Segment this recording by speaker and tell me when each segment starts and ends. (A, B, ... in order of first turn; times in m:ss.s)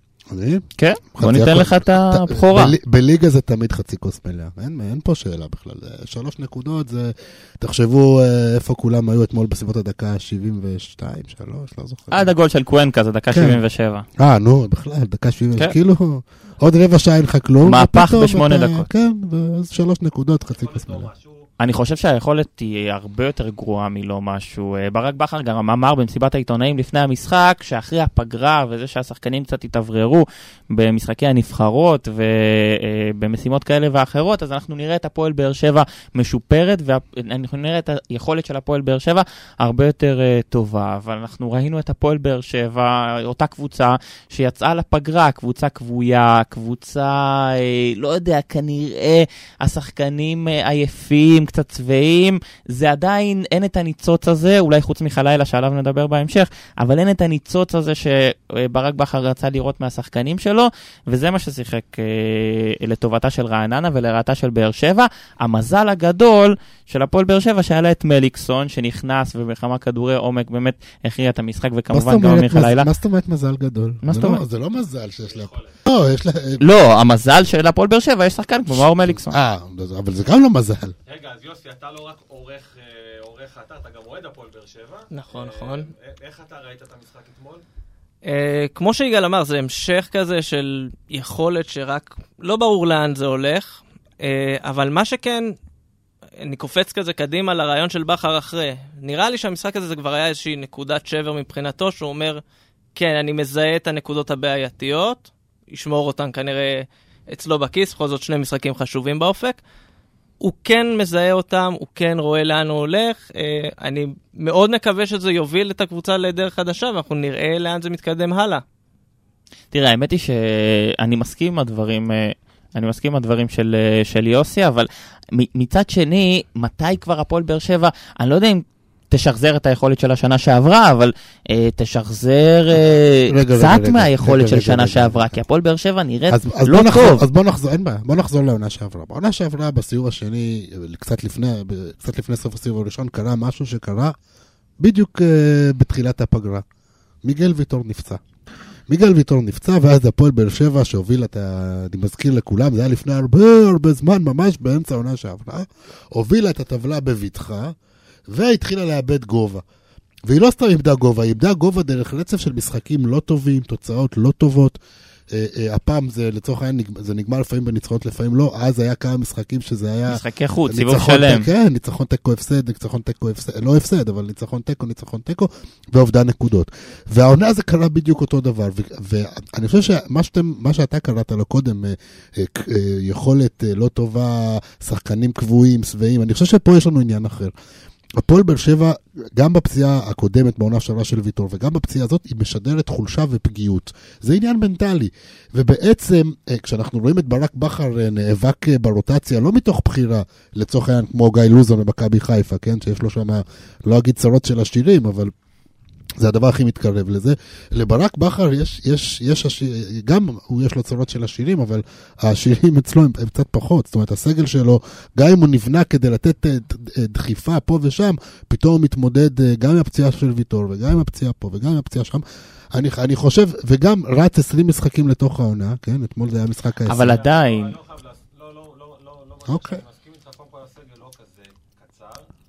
0:00.3-0:12.3 A
0:00.8-0:02.8 B
0:12.1-0:14.0 B
0:13.3-0:13.6 A
0:14.2-0:21.1 A
0:17.6-0:18.9 B
0:20.6-0:21.5 C
0:21.6-1:12.9 B
1:11.9-1:16.6 A
1:14.0-1:14.4 B
1:15.2-1:15.8 C
1:16.6-1:19.4 B
1:18.7-1:20.9 A
1:21.1-1:27.6 C
1:25.1-1:25.9 D
1:28.2-1:35.6 D
1:36.4-1:42.4 D
1:43.0-1:49.6 D
1:50.4-1:58.6 D
1:59.7-2:17.2 B
2:13.3-2:15.4 A
2:16.3-2:24.2 A
2:24.8-2:26.6 A
2:27.2-2:28.2 A
2:28.9-2:37.8 A
2:38.3-2:39.6 A
2:40.3-2:44.8 A
2:45.3-3:07.5 A
2:50.1-2:51.5 B
3:08.2-3:25.3 A
3:26.2-3:42.2 A
3:42.7-3:47.2 A
3:46.9-3:47.7 B
3:46.9-3:52.3 C
3:49.5-3:49.8 A